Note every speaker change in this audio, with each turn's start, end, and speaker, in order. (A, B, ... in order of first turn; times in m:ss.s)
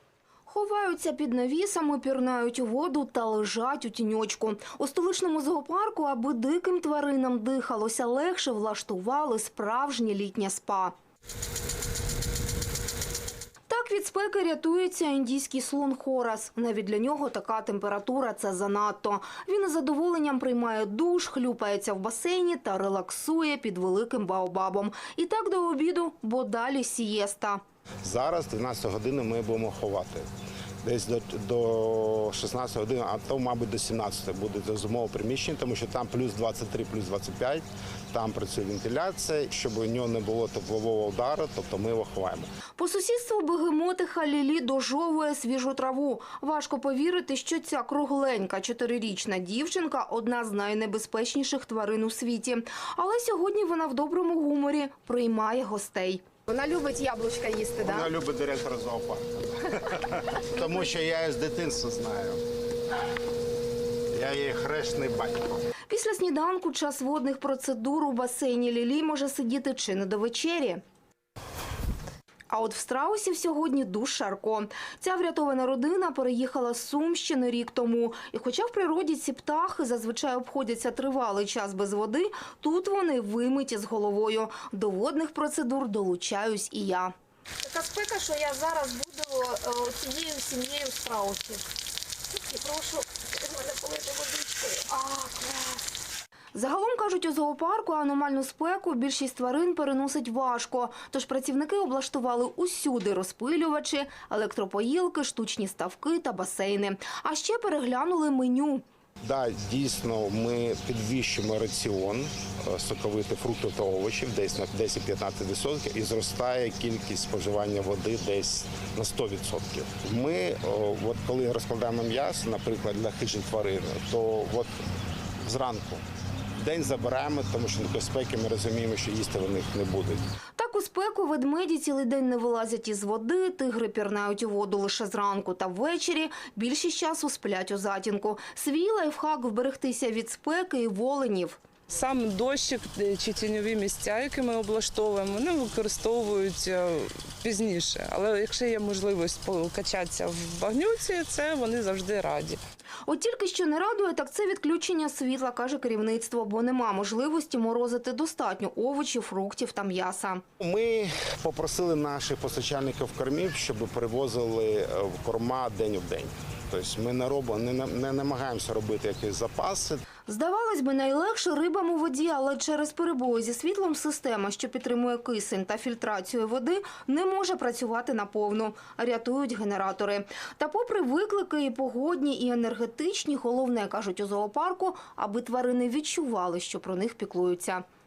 0:00.5-0:10.9 A
0:13.7-0:27.6 A
0:28.0-0:30.3 B
0:30.8-0:42.5 B
0:42.8-0:58.1 A
0:57.8-1:02.4 B
1:04.1-1:05.7 B
1:05.9-1:10.8 A
1:12.5-1:27.1 A
1:27.6-1:31.6 A
1:32.3-1:35.8 A
1:36.5-1:48.8 A
1:49.2-2:04.7 B
2:05.4-2:06.0 B
2:06.6-2:10.2 B
2:10.6-2:21.6 A
2:21.9-2:32.6 C
2:33.1-2:40.4 A
2:40.6-2:50.0 B
2:50.3-3:07.8 A